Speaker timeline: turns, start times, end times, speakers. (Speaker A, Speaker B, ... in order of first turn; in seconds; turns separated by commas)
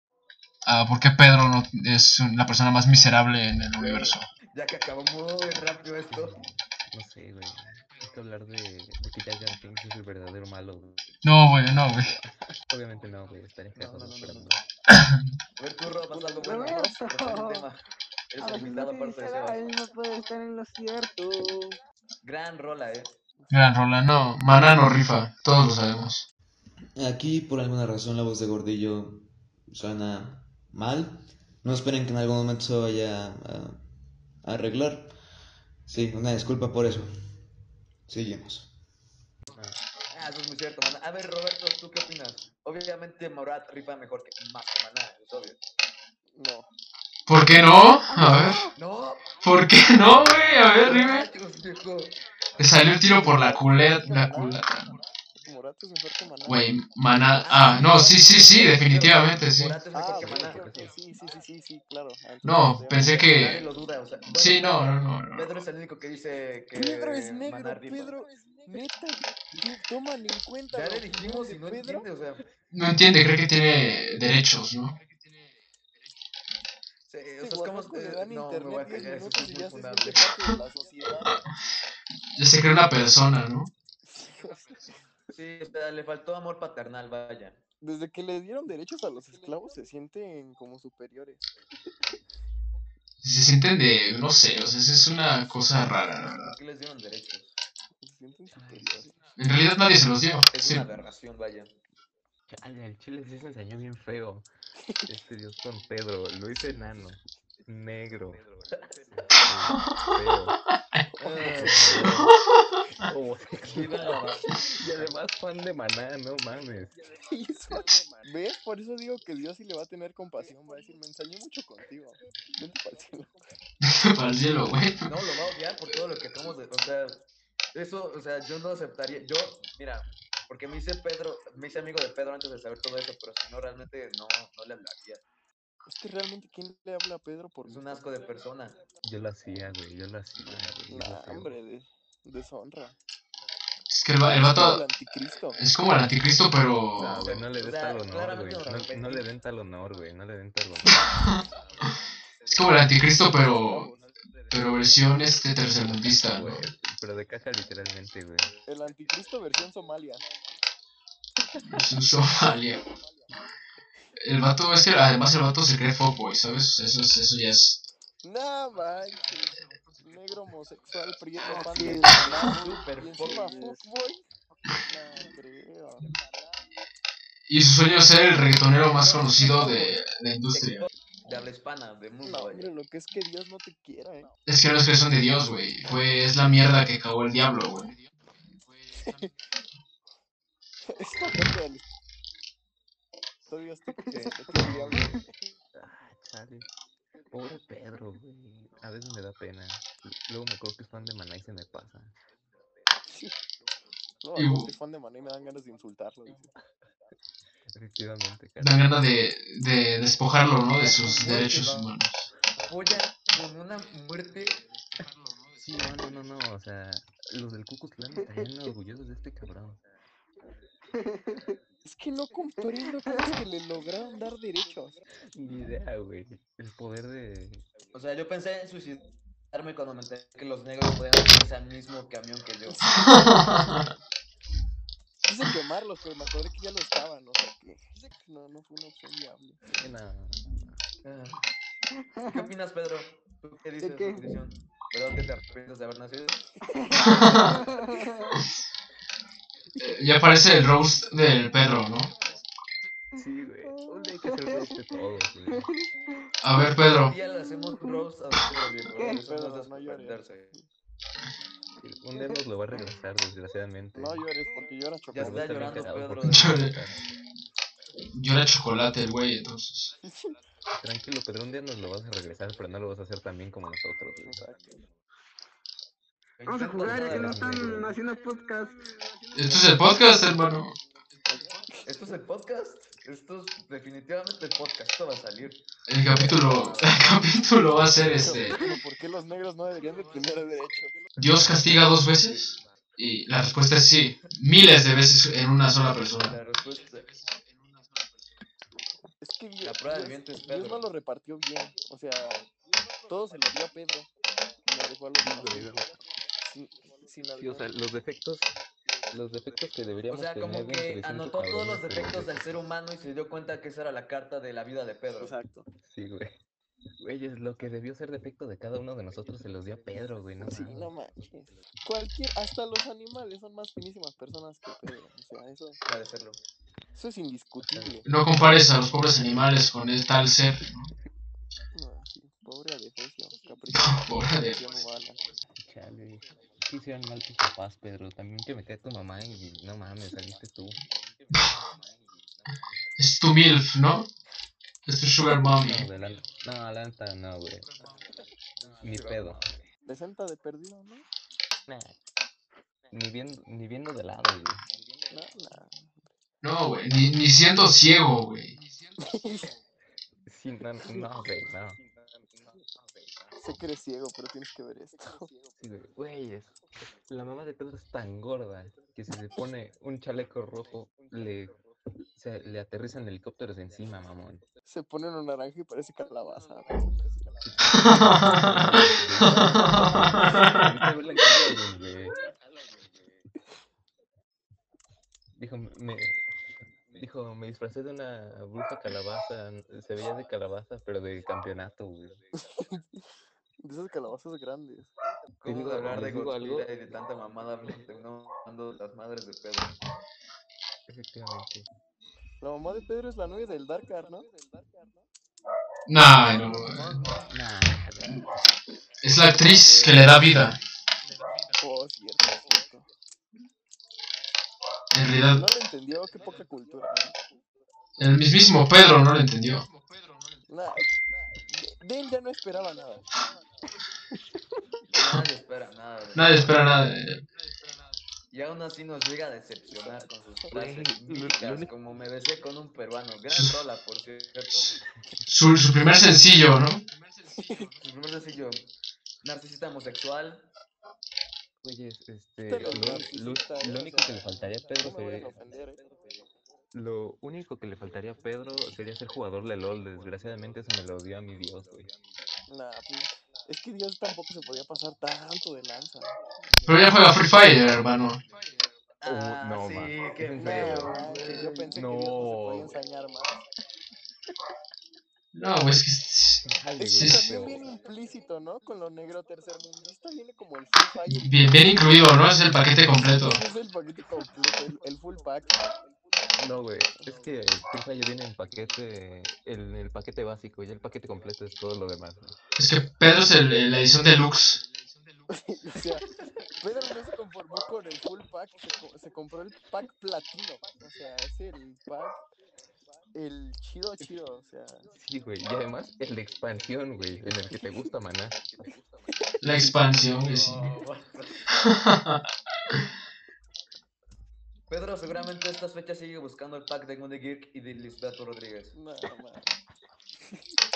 Speaker A: 0.6-4.3, Speaker B: 3.8-6.4, Speaker C: 6.1-14.6, Speaker A: 11.2-12.1, Speaker B: 13.7-14.6, Speaker B: 15.6-19.6, Speaker D: 16.1-17.0, Speaker E: 16.4-17.7, Speaker E: 18.4-21.8, Speaker B: 22.2-23.1, Speaker A: 23.5-26.2, Speaker B: 27.0-31.1, Speaker B: 31.6-33.7, Speaker B: 34.5-35.1, Speaker B: 35.9-37.0, Speaker B: 38.1-38.7, Speaker C: 39.5-39.8, Speaker B: 40.1-45.6, Speaker D: 46.3-46.7, Speaker A: 47.3-48.6, Speaker E: 48.1-48.7, Speaker B: 48.7-49.4, Speaker A: 49.4-51.2, Speaker C: 50.0-50.8, Speaker B: 50.8-52.2, Speaker A: 52.6-54.9, Speaker D: 53.0-54.6, Speaker D: 55.4-56.7, Speaker A: 56.5-59.8, Speaker B: 57.4-60.9, Speaker D: 59.9-63.4, Speaker C: 60.2-60.9, Speaker A: 62.4-63.6, Speaker B: 63.2-68.1, Speaker A: 64.3-65.5, Speaker D: 66.7-72.1, Speaker B: 70.7-72.4, Speaker A: 72.7-74.9, Speaker B: 77.1-80.3, Speaker D: 77.4-81.3, Speaker A: 82.3-83.7, Speaker D: 84.0-84.8, Speaker B: 85.3-87.6, Speaker D: 87.8-91.4, Speaker A: 93.2-96.5, Speaker B: 96.3-97.6, Speaker D: 98.0-99.1, Speaker C: 98.5-99.1, Speaker A: 99.4-100.8, Speaker B: 100.5-101.8, Speaker C: 102.5-104.5, Speaker C: 105.0-108.4, Speaker C: 109.1-110.6, Speaker D: 111.2-112.1, Speaker B: 111.2-112.2, Speaker C: 111.4-112.4, Speaker A: 112.1-112.3, Speaker C: 113.0-117.0, Speaker B: 113.7-115.0, Speaker D: 117.2-123.3, Speaker A: 123.8-125.1, Speaker B: 125.0-135.2, Speaker D: 135.8-138.0, Speaker B: 137.6-138.8, Speaker C: 139.0-141.5, Speaker D: 140.9-142.9, Speaker A: 143.9-144.8, Speaker D: 144.2-145.6, Speaker A: 145.5-147.2, Speaker C: 147.0-151.4, Speaker B: 147.0-149.3, Speaker A: 152.5-153.9, Speaker D: 153.4-154.1, Speaker A: 154.5-156.6, Speaker C: 155.8-158.5, Speaker D: 158.7-160.2, Speaker A: 161.6-162.8, Speaker A: 164.2-167.8, Speaker D: 168.2-174.2, Speaker B: 171.4-173.8, Speaker E: 171.6-172.2, Speaker D: 174.8-176.1, Speaker A: 177.5-180.8, Speaker B: 178.9-182.7, Speaker D: 182.2-184.3, Speaker A: 184.4-187.9, Speaker D: 188.9-189.3, Speaker D: 190.8-191.9, Speaker D: 193.5-195.3, Speaker C: 194.6-195.2, Speaker C: 195.7-196.7, Speaker C: 197.3-202.1, Speaker D: 203.1-203.3, Speaker D: 204.2-206.5, Speaker A: 204.3-204.7, Speaker C: 207.7-208.9, Speaker A: 208.6-212.3, Speaker D: 211.3-211.6, Speaker B: 212.6-214.6, Speaker C: 215.6-219.8, Speaker E: 221.0-221.5, Speaker D: 221.8-225.0, Speaker C: 225.3-227.7, Speaker B: 227.9-233.0, Speaker D: 232.7-233.8, Speaker A: 232.9-233.8, Speaker D: 235.2-239.6, Speaker C: 239.7-240.8, Speaker B: 241.0-241.4, Speaker E: 242.0-242.5, Speaker B: 242.2-246.4, Speaker E: 243.8-244.2, Speaker E: 246.7-248.3, Speaker A: 247.0-247.6, Speaker A: 249.8-252.1, Speaker C: 253.1-255.7, Speaker E: 253.7-254.7, Speaker A: 256.4-257.1, Speaker B: 256.8-260.5, Speaker E: 257.4-258.0, Speaker D: 259.0-260.6, Speaker C: 261.8-264.2, Speaker D: 263.9-265.9, Speaker B: 265.1-266.7, Speaker C: 265.1-267.0, Speaker A: 266.2-266.7, Speaker A: 268.1-269.9, Speaker D: 270.0-270.3, Speaker C: 270.7-274.5, Speaker D: 274.2-274.8, Speaker B: 276.4-277.9, Speaker E: 276.4-278.8, Speaker C: 276.8-277.9, Speaker A: 279.3-280.8, Speaker D: 281.3-281.9, Speaker B: 281.9-287.1, Speaker A: 285.9-288.6, Speaker C: 287.8-288.4, Speaker D: 288.2-291.1, Speaker A: 291.1-296.3, Speaker C: 291.3-291.7, Speaker B: 296.2-297.1, Speaker D: 299.2-302.5, Speaker B: 299.6-300.8, Speaker D: 303.1-304.1, Speaker D: 304.6-305.7, Speaker C: 305.2-306.0, Speaker D: 306.4-307.7, Speaker C: 307.4-308.5, Speaker C: 309.1-312.6, Speaker B: 310.1-315.3, Speaker D: 315.2-315.7, Speaker C: 315.8-316.4, Speaker C: 317.0-320.9, Speaker D: 320.4-325.8, Speaker B: 325.9-326.4, Speaker D: 326.9-328.1, Speaker C: 327.7-328.0, Speaker A: 328.0-330.9, Speaker D: 331.7-335.2, Speaker A: 333.7-334.6, Speaker C: 335.6-340.8, Speaker A: 343.0-344.1, Speaker A: 344.9-345.9, Speaker C: 345.6-347.7, Speaker B: 348.6-349.5, Speaker C: 348.8-349.4, Speaker D: 349.9-351.1, Speaker C: 351.7-351.9, Speaker C: 352.9-354.6, Speaker D: 355.1-356.1, Speaker A: 356.4-358.6, Speaker D: 359.0-359.5, Speaker C: 360.2-361.8, Speaker D: 363.4-365.3, Speaker C: 365.5-371.5, Speaker C: 372.1-374.4, Speaker D: 374.6-376.9, Speaker C: 377.4-382.1, Speaker A: 377.7-380.7, Speaker C: 385.4-386.2, Speaker C: 386.9-392.2, Speaker D: 392.4-393.1, Speaker D: 393.6-394.9, Speaker B: 395.4-399.8, Speaker C: 395.4-396.7, Speaker C: 400.9-401.7, Speaker D: 402.4-404.3, Speaker A: 405.9-406.9, Speaker B: 406.1-407.3, Speaker C: 407.3-408.3, Speaker A: 409.0-410.6, Speaker D: 411.6-412.9, Speaker A: 414.9-415.4, Speaker D: 415.3-417.2, Speaker A: 418.0-419.7, Speaker D: 420.5-423.0, Speaker B: 424.9-426.7, Speaker A: 424.9-425.2, Speaker A: 426.1-427.2, Speaker B: 428.3-434.7, Speaker D: 429.7-430.0, Speaker C: 430.5-431.7, Speaker A: 435.3-436.8, Speaker D: 437.3-437.7, Speaker B: 437.8-438.7, Speaker B: 439.2-440.5, Speaker C: 441.6-445.4, Speaker D: 442.4-445.8, Speaker C: 446.7-451.9, Speaker D: 452.5-456.6, Speaker A: 456.6-458.2, Speaker B: 459.0-461.7, Speaker C: 459.0-461.1, Speaker D: 460.4-463.4, Speaker C: 461.7-462.8, Speaker A: 465.3-466.4, Speaker C: 466.4-467.7, Speaker D: 466.8-471.4, Speaker A: 466.9-467.2, Speaker A: 471.1-473.4, Speaker D: 473.2-475.6, Speaker C: 476.4-482.4, Speaker A: 482.6-484.6, Speaker D: 485.3-492.2, Speaker D: 493.1-494.9, Speaker C: 494.9-498.4, Speaker A: 499.4-500.7, Speaker B: 500.2-501.5, Speaker A: 501.6-502.2, Speaker B: 504.7-508.7, Speaker D: 508.7-509.6